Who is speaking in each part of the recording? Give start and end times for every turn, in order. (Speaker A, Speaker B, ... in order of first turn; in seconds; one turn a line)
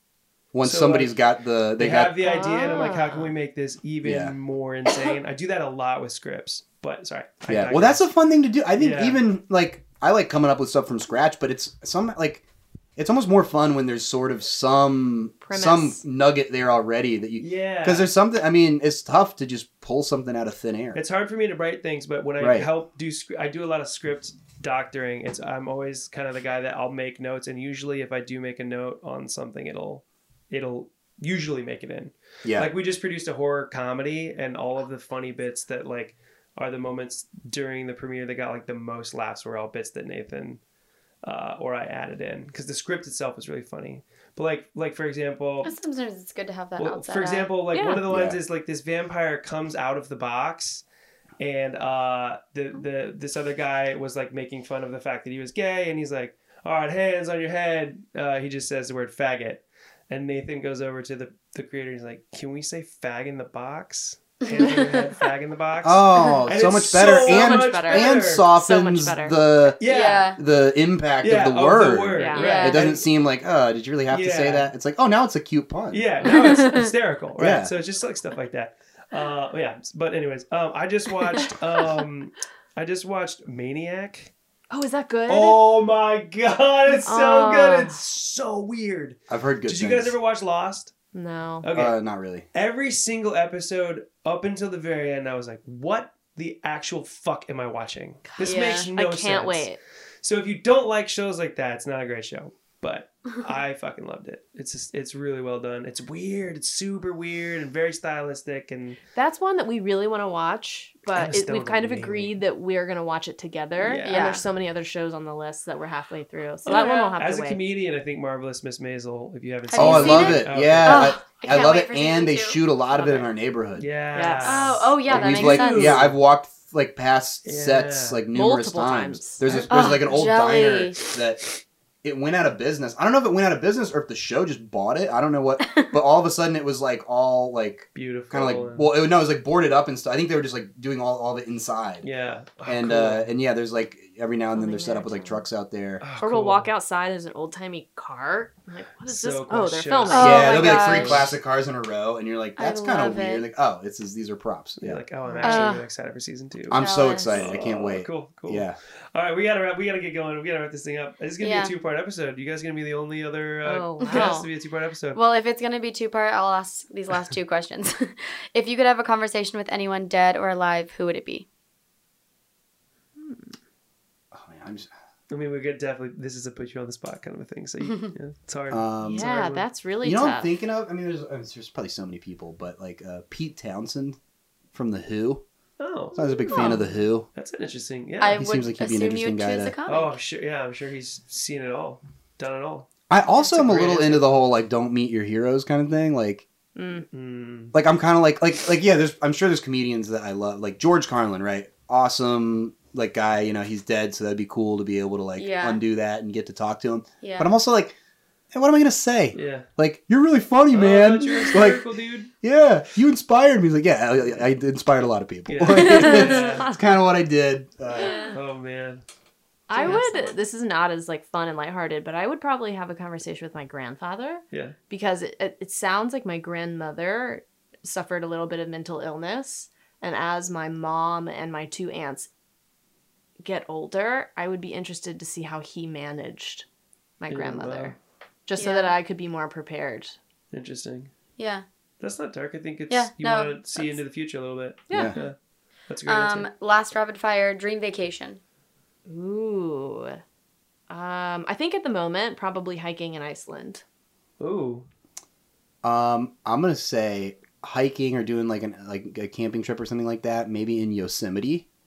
Speaker A: 0.5-2.2
Speaker B: 0.6-1.2
Speaker B: 1.8-8.1
Speaker C: 2.2-3.3
Speaker A: 4.0-4.3
Speaker A: 7.5-12.4
Speaker B: 8.8-9.2
Speaker A: 12.9-21.0
Speaker C: 15.4-16.0
Speaker B: 17.4-18.1
Speaker B: 20.9-40.6
Speaker A: 22.4-22.7
Speaker B: 41.2-45.7
Speaker D: 45.6-47.5
Speaker B: 46.8-50.8
Speaker C: 47.7-48.0
Speaker A: 48.1-48.4
Speaker B: 51.4-68.5
Speaker D: 64.4-65.1
Speaker A: 65.8-69.8
Speaker C: 67.0-69.4
Speaker B: 69.8-70.4
Speaker D: 69.8-70.4
Speaker A: 70.4-76.0
Speaker B: 71.2-73.0
Speaker C: 72.2-72.6
Speaker D: 72.3-72.8
Speaker B: 74.1-74.7
Speaker B: 75.9-84.3
Speaker D: 76.2-76.9
Speaker A: 77.4-77.7
Speaker C: 84.7-85.6
Speaker B: 85.3-90.9
Speaker C: 87.0-88.0
Speaker A: 89.3-90.2
Speaker C: 91.1-91.7
Speaker B: 91.6-92.0
Speaker A: 91.7-92.5
Speaker B: 92.5-99.7
Speaker C: 98.2-99.8
Speaker D: 98.4-98.9
Speaker B: 100.2-109.0
Speaker C: 109.1-117.6
Speaker B: 111.1-112.3
Speaker B: 113.8-114.4
Speaker D: 114.0-114.4
Speaker B: 116.6-121.2
Speaker D: 116.7-117.1
Speaker D: 119.7-122.6
Speaker A: 119.8-123.9
Speaker C: 122.9-123.3
Speaker B: 123.8-126.2
Speaker C: 124.1-124.8
Speaker D: 124.4-126.0
Speaker A: 125.1-131.5
Speaker B: 127.4-128.2
Speaker C: 128.3-129.6
Speaker B: 129.4-130.1
Speaker D: 129.7-131.0
Speaker A: 132.0-142.1
Speaker D: 135.6-135.9
Speaker B: 137.9-138.9
Speaker B: 142.0-143.3
Speaker A: 142.6-146.0
Speaker C: 144.5-145.4
Speaker B: 146.0-146.7
Speaker C: 146.2-150.9
Speaker B: 149.1-151.3
Speaker D: 150.1-151.3
Speaker A: 150.2-155.0
Speaker D: 152.6-153.4
Speaker B: 154.8-165.2
Speaker C: 155.2-155.7
Speaker D: 155.4-155.8
Speaker A: 156.7-158.8
Speaker D: 156.7-157.7
Speaker D: 161.4-161.7
Speaker C: 163.6-164.5
Speaker D: 164.0-164.4
Speaker D: 165.1-171.4
Speaker C: 173.2-173.5
Speaker A: 174.3-174.9
Speaker B: 175.3-179.7
Speaker A: 178.7-179.3
Speaker C: 179.0-180.5
Speaker A: 180.0-184.2
Speaker A: 184.7-185.4
Speaker B: 185.8-186.7
Speaker A: 186.2-187.3
Speaker C: 186.5-186.8
Speaker D: 186.5-186.8
Speaker B: 187.3-188.5
Speaker D: 188.2-190.2
Speaker A: 188.3-189.7
Speaker B: 189.8-192.9
Speaker A: 193.1-196.4
Speaker B: 193.4-194.2
Speaker C: 196.7-197.1
Speaker B: 197.1-197.7
Speaker A: 197.7-207.9
Speaker D: 205.4-205.8
Speaker D: 207.2-207.5
Speaker A: 208.5-211.8
Speaker B: 209.3-209.7
Speaker B: 210.7-212.3
Speaker A: 212.4-218.2
Speaker B: 215.5-216.7
Speaker C: 216.3-216.8
Speaker B: 218.3-219.0
Speaker C: 219.7-232.3
Speaker D: 219.7-220.4
Speaker C: 233.4-236.7
Speaker C: 237.2-240.2
Speaker B: 237.3-237.9
Speaker D: 238.6-238.9
Speaker B: 240.5-241.1
Speaker D: 241.4-241.6
Speaker B: 242.0-245.3
Speaker D: 242.9-244.0
Speaker C: 244.9-245.2
Speaker A: 244.9-245.2
Speaker B: 245.9-246.5
Speaker D: 246.1-248.4
Speaker C: 249.1-250.2
Speaker C: 250.9-253.8
Speaker B: 254.4-254.8
Speaker A: 255.8-261.6